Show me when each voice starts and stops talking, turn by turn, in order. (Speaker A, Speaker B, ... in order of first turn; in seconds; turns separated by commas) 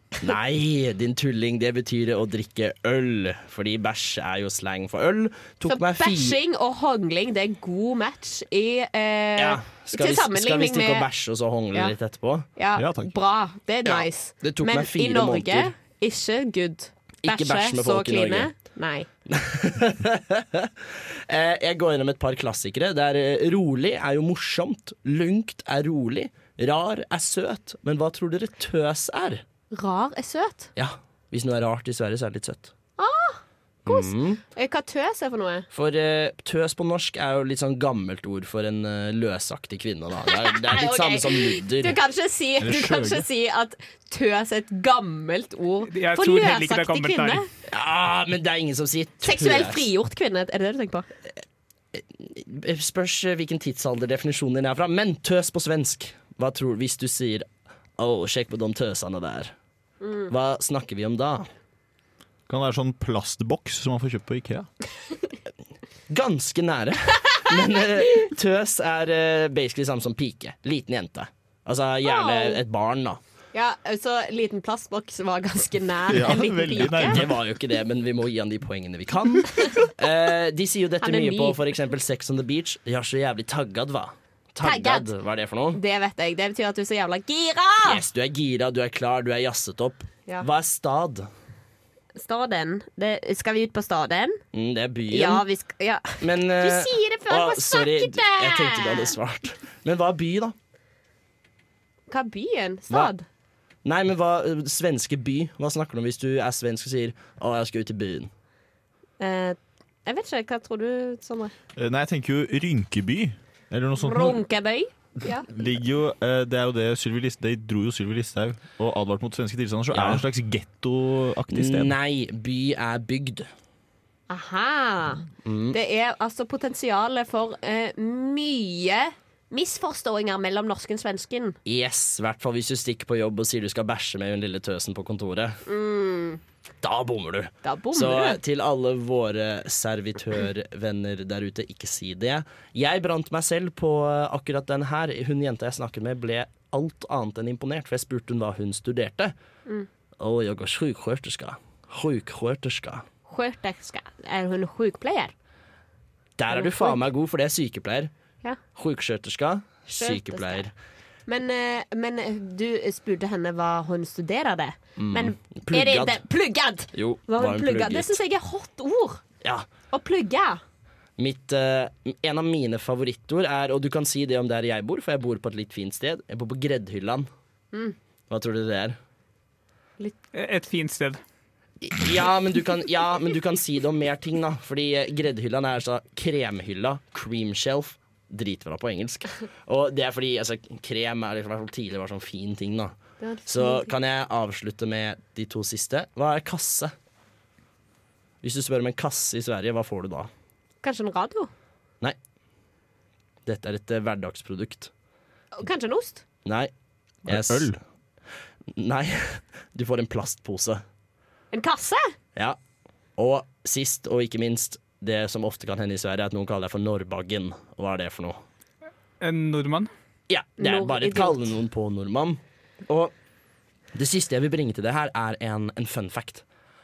Speaker A: 0.2-6.4, Speaker B: 5.6-11.1, Speaker A: 9.4-12.5, Speaker B: 12.5-19.1, Speaker C: 12.8-13.1, Speaker A: 13.8-15.7, Speaker A: 17.2-18.5, Speaker A: 19.3-29.4, Speaker B: 29.7-30.7, Speaker A: 30.8-32.7, Speaker B: 33.0-35.7, Speaker A: 33.9-34.4, Speaker A: 35.7-42.0, Speaker B: 40.3-47.5, Speaker C: 42.6-43.2, Speaker D: 45.9-47.5, Speaker A: 47.7-49.9, Speaker B: 49.2-51.1, Speaker A: 51.9-59.5, Speaker B: 60.0-60.3, Speaker A: 60.3-61.5, Speaker C: 62.5-64.7, Speaker A: 66.1-73.2, Speaker B: 72.0-72.6, Speaker B: 73.5-77.2, Speaker C: 76.1-77.3, Speaker A: 77.0-85.8, Speaker B: 81.0-81.6, Speaker B: 84.6-85.1, Speaker B: 85.7-88.0, Speaker A: 87.8-91.3, Speaker B: 92.2-94.4, Speaker A: 94.5-95.4, Speaker B: 95.1-99.1, Speaker A: 96.2-100.5, Speaker B: 102.1-103.2, Speaker A: 103.8-108.3, Speaker B: 109.2-111.5, Speaker C: 111.8-114.4, Speaker B: 114.0-115.5, Speaker C: 115.5-121.9, Speaker A: 119.9-120.2, Speaker A: 121.5-123.5, Speaker B: 124.3-131.6, Speaker A: 125.4-125.8, Speaker A: 131.6-135.6, Speaker B: 135.7-136.4, Speaker A: 136.8-149.3, Speaker B: 137.6-138.4, Speaker A: 150.2-153.0, Speaker B: 153.3-155.3, Speaker A: 156.4-158.1, Speaker B: 156.5-157.0, Speaker A: 158.7-160.7, Speaker B: 159.9-160.7, Speaker B: 161.3-169.2, Speaker A: 165.0-166.2, Speaker A: 166.9-168.2, Speaker A: 169.4-169.7, Speaker B: 169.9-170.6, Speaker A: 171.2-177.3, Speaker A: 178.3-179.0, Speaker D: 180.3-181.2, Speaker A: 181.8-196.9, Speaker B: 193.2-193.9, Speaker A: 198.4-200.3, Speaker B: 200.8-201.5, Speaker A: 203.4-204.9, Speaker B: 205.6-206.2, Speaker A: 206.4-206.7, Speaker C: 207.2-207.8, Speaker A: 207.2-207.8, Speaker A: 208.7-210.8, Speaker B: 211.5-212.1, Speaker A: 213.2-218.4, Speaker D: 219.2-219.9, Speaker A: 220.3-223.1, Speaker B: 220.6-221.5, Speaker A: 223.9-226.4